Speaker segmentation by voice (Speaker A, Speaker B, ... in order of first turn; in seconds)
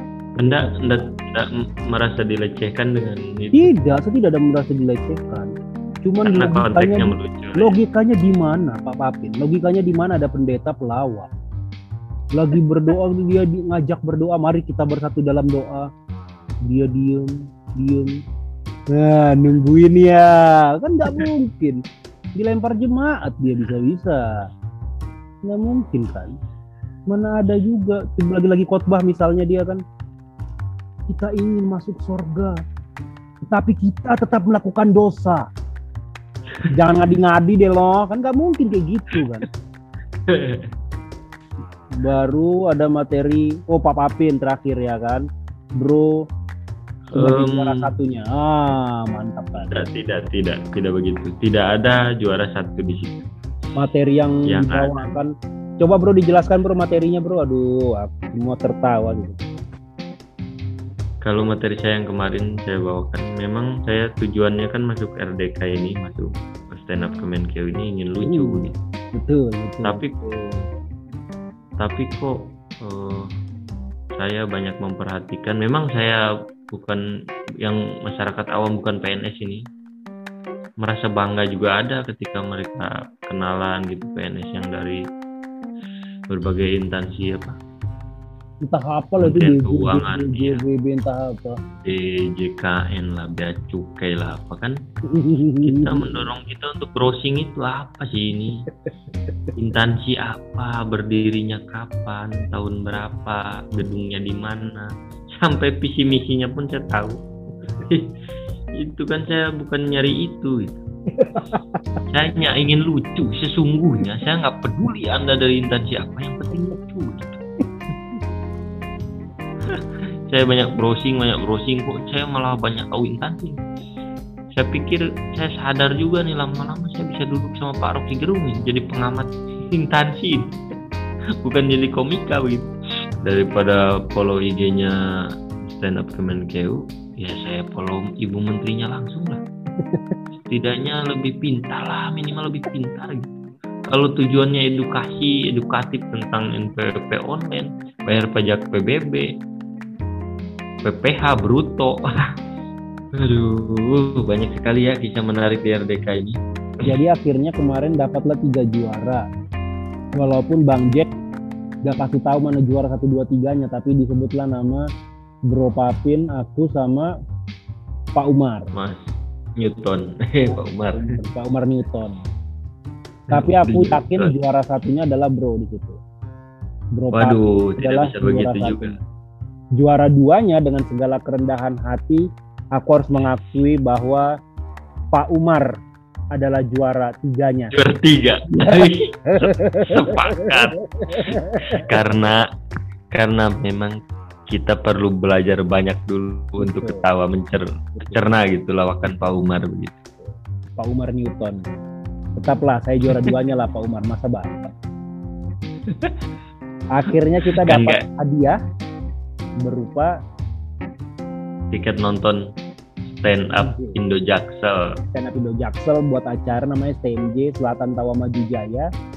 Speaker A: 0.4-3.8, 6.2-7.8, 40.3-40.7, 47.1-47.9, 49.7-53.2, 54.5-55.0, 61.2-68.8, 69.8-70.7, 71.8-73.3, 74.2-76.2, 76.7-77.0, 77.6-79.6, 80.8-85.0, 86.3-87.6, 89.2-90.6, 91.8-94.8, 95.6-98.7, 99.6-107.2, 107.8-108.1, 108.8-110.8, 112.1-117.4, 119.7-123.6, 124.5-130.5, 131.4-132.7, 133.2-135.0, 135.6-139.4, 140.5-143.3, 143.9-149.2, 150.8-152.1, 153.1-156.9, 168.7-171.0, 173.3-174.3, 177.1-178.9, 187.7-192.4, 193.1-194.0, 194.5-200.0, 203.1-203.3, 205.8-206.2, 207.5-208.1, 211.7-212.4, 213.1-214.8
Speaker B: 0.4-0.8, 3.5-5.5, 6.0-11.3, 12.3-15.9, 16.6-18.2, 18.9-21.8, 22.4-24.2, 25.4-26.3, 27.1-29.8, 31.1-32.6, 33.4-35.5, 36.7-39.5, 42.0-45.2, 45.8-46.1, 47.1-49.9, 53.8-55.3, 55.8-59.4, 68.2-70.0, 88.6-91.5, 95.1-96.2, 111.1-111.8, 139.8-140.1, 156.8-159.2, 160.2-161.1, 161.8-164.8, 165.5-167.1, 168.2-168.7, 170.5-172.2, 173.3-176.0, 177.0-179.0, 179.8-184.3, 185.1-185.7, 186.3-187.7, 188.5-191.9, 196.6-197.0, 200.2-201.7, 202.3-204.7, 206.9-208.6, 209.6-210.1, 213.5-214.0, 215.1-218.9